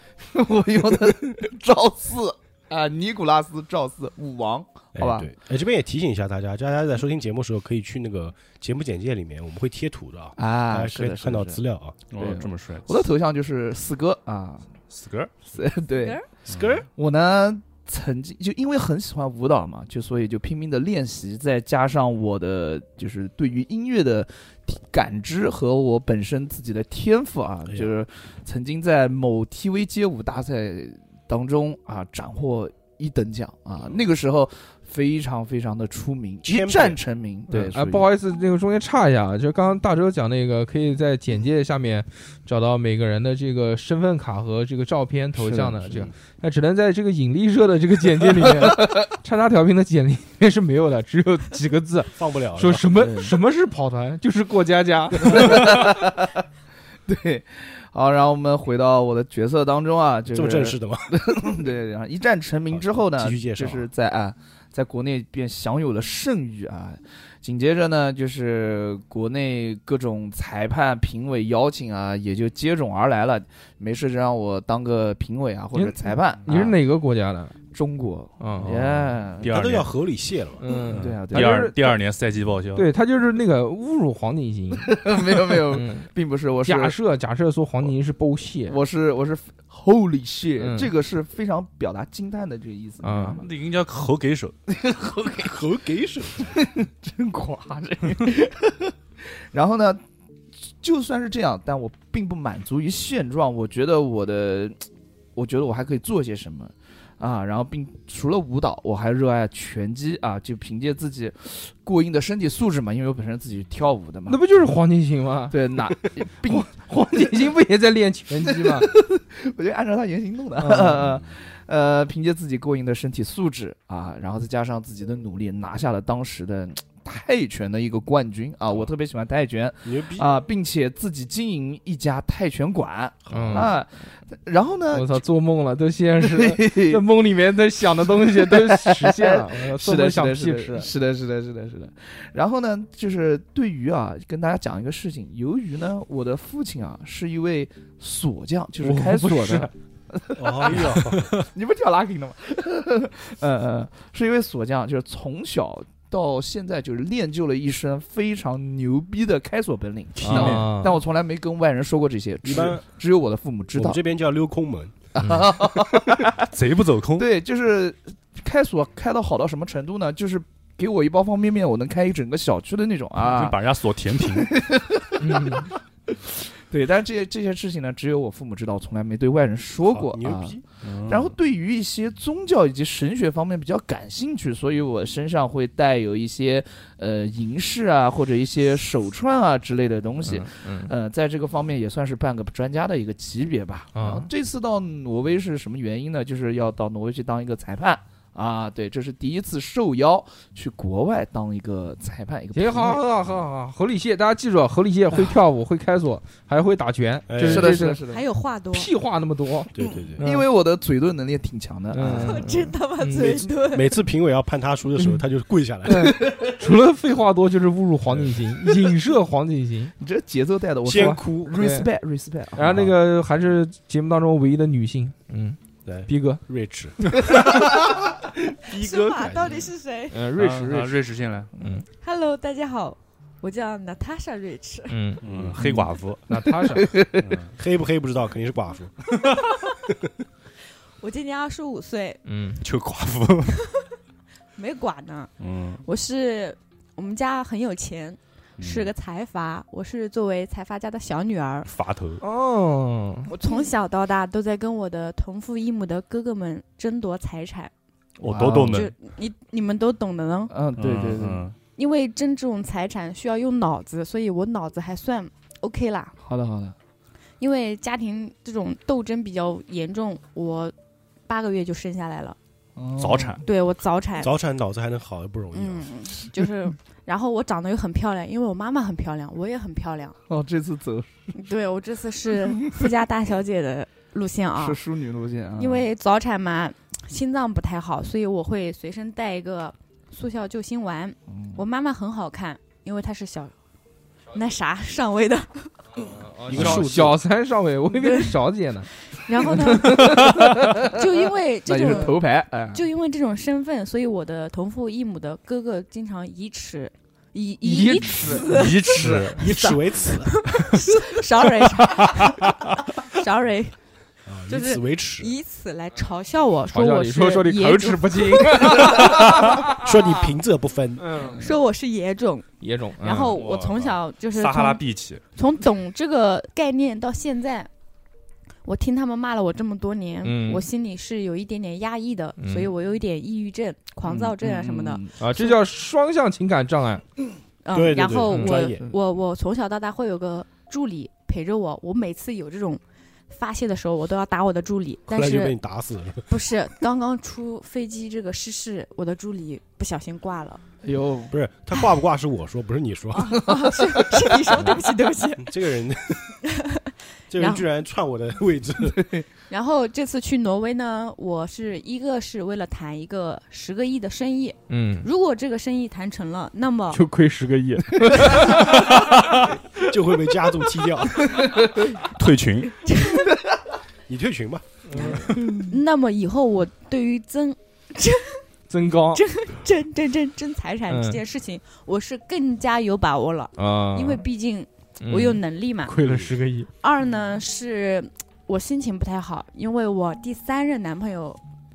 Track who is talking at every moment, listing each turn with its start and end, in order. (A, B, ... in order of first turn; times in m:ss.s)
0:00.2-0:05.3 A
0:05.0-0:12.0 B
0:10.4-0:11.6 A
0:12.1-0:13.0 C
0:12.2-0:14.7 A
0:14.9-0:15.3 C
0:15.5-0:16.2 A
0:16.0-0:16.3 D
0:16.5-0:16.9 B
0:16.9-0:38.1 A
0:36.4-0:37.0 B
0:37.5-0:55.7 E
0:45.4-0:46.1 A
0:48.3-0:49.1 A
0:52.2-0:53.2 B
0:53.0-0:53.3 A
0:55.2-0:56.3 A
0:57.1-1:16.8 A
1:00.3-1:01.4 B
1:02.7-1:03.9 B
1:15.8-1:17.6 E
1:17.7-1:19.5 A
1:18.4-1:18.7 E
1:18.6-1:19.9 C
1:19.4-1:20.6 B
1:20.6-1:22.0 E
1:20.7-1:21.7 A
1:20.9-1:22.9 C
1:22.8-1:25.0 E
1:24.9-1:27.0 A
1:25.6-1:26.1 E
1:26.6-1:28.8 E
1:28.7-1:33.4 A
1:30.6-1:30.9 E
1:33.0-1:33.4 E
1:33.4-1:34.6 C
1:34.7-1:35.6 A
1:35.4-1:36.5 B
1:36.3-1:40.0 A
1:40.7-1:44.8 A
1:45.4-1:54.4 A
1:54.3-1:55.7 E
1:55.5-1:56.7 A
1:56.4-1:58.9 E
1:58.5-2:15.2 A
2:00.6-2:01.1 E
2:09.8-2:10.3 B
2:13.3-2:13.8 B
2:13.3-2:13.7 E
2:14.9-2:20.9 E
2:16.2-2:17.0 A
2:18.1-2:44.0 A
2:28.8-2:29.7 E
2:30.4-2:31.3 B
2:40.2-2:40.7 C
2:40.2-2:41.0 E
2:42.4-2:42.8 B
2:43.8-2:45.0 B
2:45.2-2:46.5 A
2:45.2-2:45.5 E
2:46.4-2:47.3 C
2:47.2-2:53.6 A
2:53.2-2:54.5 C
2:54.3-3:23.0 A
2:55.2-2:55.7 E
2:59.8-3:00.6 B
3:00.8-3:01.4 C
3:10.2-3:10.9 E
3:14.0-3:14.3 E
3:22.5-3:28.0 E
3:27.3-3:27.9 B
3:27.4-3:28.2 A
3:28.1-3:28.9 D
3:28.7-3:30.4 E
3:29.7-3:30.2 B
3:30.2-3:32.4 A
3:31.9-3:33.5 E
3:32.0-3:34.0 D
3:33.7-3:36.2 B
3:35.9-3:39.9 E
3:35.9-3:36.6 A
3:38.1-3:38.5 B
3:40.0-3:42.6 A
3:40.8-3:41.7 B
3:41.0-3:41.9 E
3:42.5-3:46.4 E
3:42.6-3:42.9 B
3:45.9-3:47.7 B
3:47.3-3:49.3 A
3:48.7-3:50.2 D
3:49.2-3:49.6 B
3:50.1-3:51.0 E
3:50.4-3:51.5 C
3:51.6-3:51.8 E
3:52.0-3:55.0 D
3:54.9-3:56.9 E
3:55.2-3:56.2 C
3:55.2-3:55.6 B
3:56.7-3:57.2 A
3:57.2-3:57.6 C
3:57.6-4:00.1 B
4:01.0-4:02.2 D
4:02.3-4:02.6 E
4:02.6-4:03.6 C
4:04.6-4:05.3 D
4:05.4-4:05.8 C
4:05.8-4:11.7 D
4:08.6-4:08.9 C
4:11.7-4:12.2 C
4:12.2-4:13.3 E
4:13.3-4:17.7 D
4:18.2-4:18.9 C
4:18.2-4:18.8 A
4:18.7-4:20.5 D
4:20.5-4:21.5 A
4:20.8-4:21.6 C
4:21.8-4:26.2 D
4:26.2-4:26.8 A
4:27.4-4:30.7 D
4:31.3-4:32.4 D
4:32.8-4:33.4 A
4:33.0-4:33.4 C
4:33.4-4:34.3 D
4:34.2-4:35.9 B
4:35.5-4:40.2 D
4:40.3-4:41.1 A
4:41.3-4:44.8 D
4:42.5-4:42.8 A
4:44.6-4:45.9 A
4:45.6-4:53.5 D
4:51.3-4:51.6 A
4:54.3-4:56.2 D
4:56.3-5:00.2 E
4:56.5-4:57.2 B
4:58.0-4:58.4 D
4:59.1-5:13.8 D
4:59.8-5:00.9 A
5:00.0-5:00.6 C
5:01.6-5:02.8 A
5:07.6-5:08.5 E
5:08.4-5:09.4 C
5:09.0-5:10.5 B
5:14.3-5:15.3 B
5:14.5-5:19.2 D
5:16.7-5:20.0 E
5:19.6-5:21.0 B
5:21.0-5:21.4 E
5:21.2-5:21.5 A
5:21.3-5:24.8 D
5:22.6-5:23.4 E
5:23.2-5:25.2 C
5:25.4-5:27.7 D
5:28.6-5:35.6 D
5:30.2-5:30.7 E
5:32.4-5:32.7 E
5:34.0-5:35.2 A
5:35.2-5:37.0 E
5:37.6-5:45.6 D
5:37.7-5:38.9 B
5:38.3-5:38.6 E
5:45.1-5:46.3 B
5:46.3-5:50.6 D
5:50.8-5:51.4 A
5:51.3-5:53.5 B
5:53.1-5:55.5 D
5:53.5-5:54.4 A
5:55.4-5:56.4 B
5:56.4-5:57.6 D
5:57.3-5:59.0 B
5:58.8-5:59.3 A
5:59.5-6:07.0 D
6:04.7-6:05.1 E
6:06.9-6:08.8 E
6:09.8-6:11.4 B
6:11.8-6:12.8 C
6:12.8-6:13.3 D
6:14.1-6:15.0 B
6:14.9-6:15.4 E
6:15.3-6:15.7 A
6:15.7-6:18.4 D
6:18.7-6:19.2 E
6:19.1-6:26.0 D
6:20.9-6:21.2 E
6:23.6-6:24.2 E
6:25.0-6:26.7 E
6:26.8-6:31.4 D